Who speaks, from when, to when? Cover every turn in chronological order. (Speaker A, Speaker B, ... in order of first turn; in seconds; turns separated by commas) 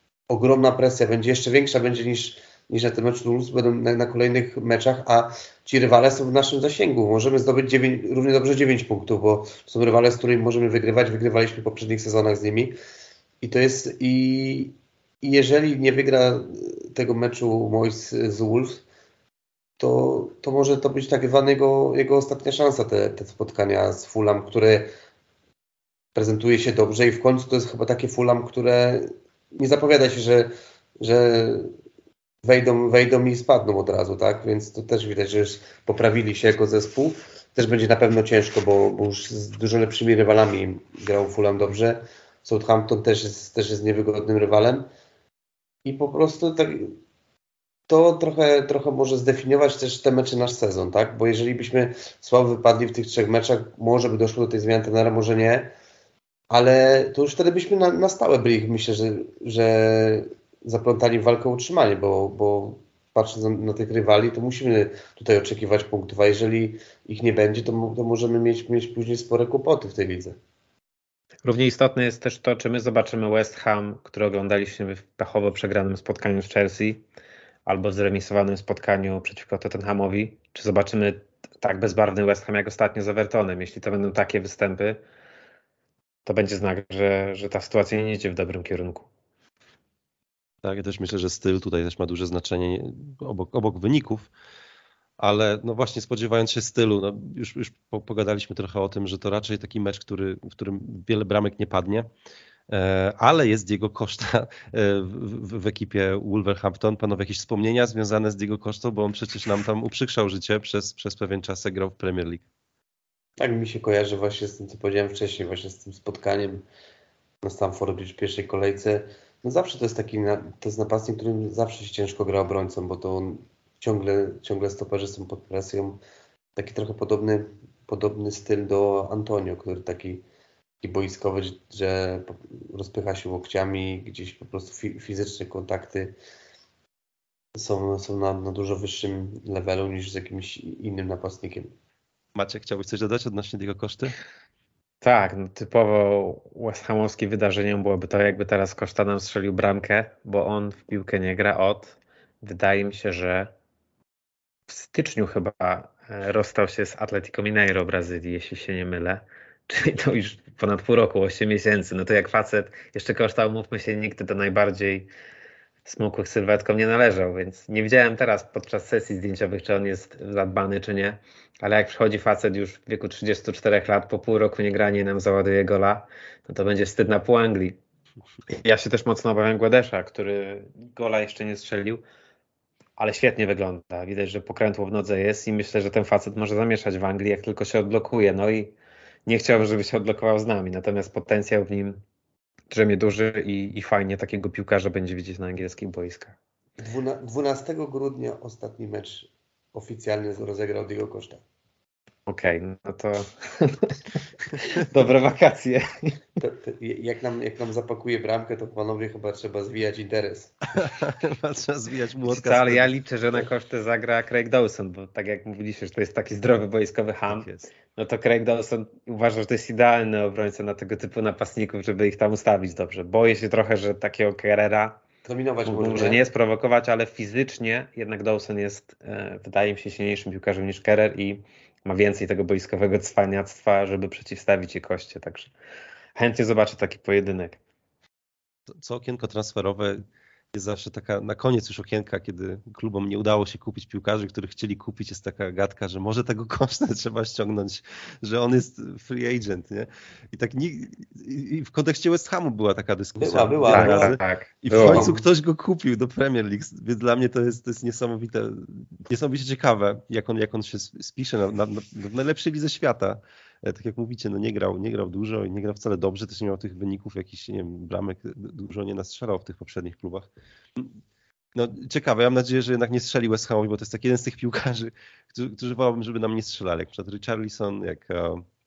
Speaker A: 0.3-12.7, Speaker A: 13.4-18.8, Speaker A: 19.8-24.9, Speaker A: 26.1-31.7, Speaker A: 32.4-44.9, Speaker A: 45.8-47.0, Speaker A: 47.9-55.7, Speaker A: 56.5-70.3, Speaker B: 71.4-77.0, Speaker B: 77.7-85.0, Speaker B: 86.2-89.1, Speaker C: 90.6-94.3, Speaker C: 95.2-102.1, Speaker C: 102.7-112.4, Speaker A: 113.4-116.6, Speaker A: 117.4-126.0, Speaker A: 126.5-130.2, Speaker A: 130.8-136.2, Speaker A: 137.5-141.7, Speaker C: 142.3-144.1, Speaker B: 145.0-153.5, Speaker B: 154.7-165.1, Speaker B: 165.8-177.8, Speaker B: 178.5-182.0, Speaker B: 183.0-188.7, Speaker B: 189.2-192.0, Speaker B: 192.7-196.3, Speaker A: 196.8-201.4, Speaker B: 202.3-206.2, Speaker A: 206.4-210.6, Speaker C: 210.7-212.9, Speaker B: 212.2-225.0, Speaker C: 217.3-217.7, Speaker A: 225.2-226.2, Speaker B: 225.7-235.5, Speaker B: 236.2-237.6, Speaker C: 238.7-270.9, Speaker A: 253.2-254.2, Speaker B: 253.7-255.1, Speaker A: 254.7-255.2, Speaker C: 271.5-278.4